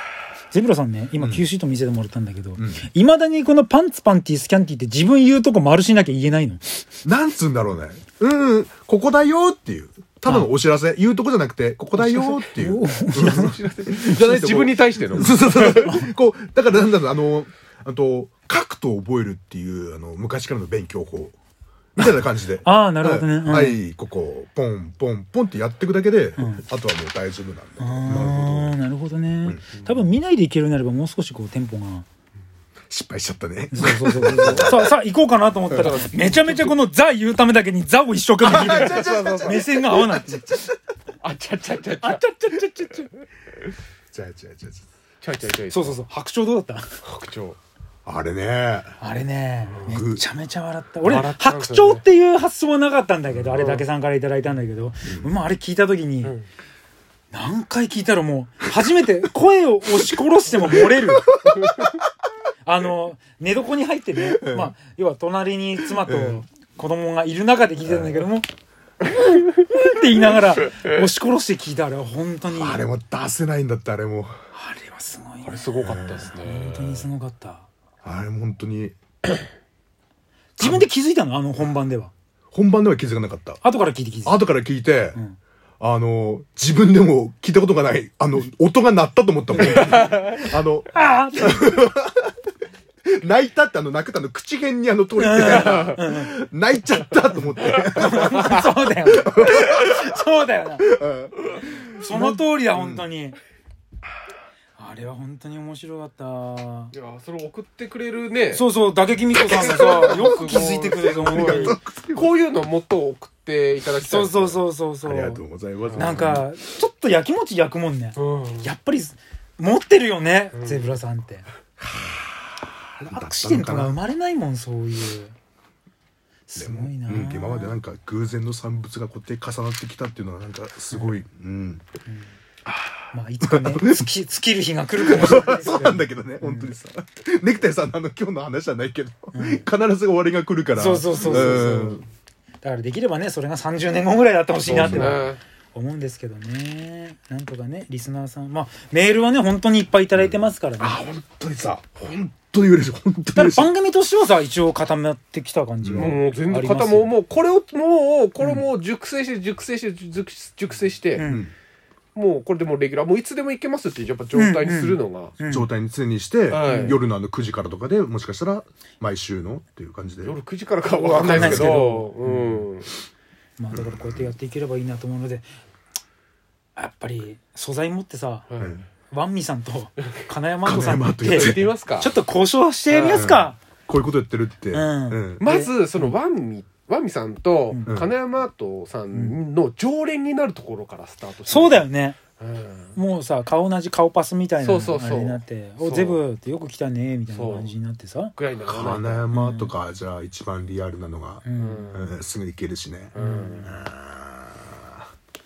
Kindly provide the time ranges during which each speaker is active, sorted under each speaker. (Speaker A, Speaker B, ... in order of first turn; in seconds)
Speaker A: 0.5-6.8, 12.0-13.5, 15.8-16.1, 22.6-23.8, 26.4-26.6, 27.8-32.1, 33.7-40.7, 42.0-43.1, 45.7-46.9, 49.0-56.3, 57.3-61.3, 62.6-68.5, 69.0-72.8, 74.5-75.8, 76.3-77.7, 80.6-82.1, 83.6-84.5, 89.7-89.9, 90.9-91.8, 95.2-96.3, 97.6-101.0, 101.9-103.4, 104.8-106.9, 108.5-111.8, 114.0-115.4, 116.0-121.5, 123.0-125.3, 126.5-127.8, 130.9-131.2, 133.1-136.7, 139.3-139.6, 140.7-142.0, 142.6-151.0, 153.3-157.1, 161.2-161.5, 164.3-165.7, 166.7-167.0, 170.9-172.6, 173.6-175.4, 176.8-178.4, 179.1-183.6, 184.7-186.1, 189.1-189.4, 191.4-192.2, 192.9-198.3, 199.3-199.7, 201.4-202.0, 203.2-203.7
Speaker B: 1.2-1.4, 2.6-2.9, 7.0-21.3, 21.9-28.8, 32.9-34.9, 38.4-40.6, 44.1-44.8, 48.0-49.0, 49.8-50.2, 53.3-53.7, 55.1-55.3, 60.9-61.5, 64.3-64.7, 65.9-66.5, 67.8-68.2, 72.5-74.3, 75.8-76.3, 78.0-79.0, 80.6-80.9, 82.5-83.6, 84.2-85.2, 85.8-92.3, 93.1-99.8, 100.8-103.0, 109.5-112.3, 115.0-116.5, 121.9-122.2, 123.0-124.0, 126.5-131.8, 133.4-134.1, 135.0-142.0, 144.7-145.3, 150.2-153.7, 155.8-156.2, 161.2-161.5, 165.4-170.4, 171.1-171.8, 173.7-174.3, 180.6-181.7, 183.0-185.4, 187.8-188.1, 198.7-205.0
Speaker C: 13.2-15.9, 35.7-36.7, 38.5-39.6, 41.2-42.2, 45.2-46.0, 47.0-47.6, 51.0-52.0, 53.6-53.9, 75.4-77.1, 89.8-90.3, 95.4-96.0, 98.0-98.6, 106.9-108.7, 109.4-114.6, 115.8-116.2, 118.2-118.7, 120.5-120.8, 141.1-141.7, 144.7-145.4, 155.9-161.2, 162.1-165.4, 166.5-167.0, 170.2-172.9, 178.5-178.8, 181.2-182.1, 182.9-183.2, 185.4-191.9, 192.4-193.0, 194.6-196.2, 197.3-197.7, 198.3-199.3, 201.6-202.1, 203.1-203.8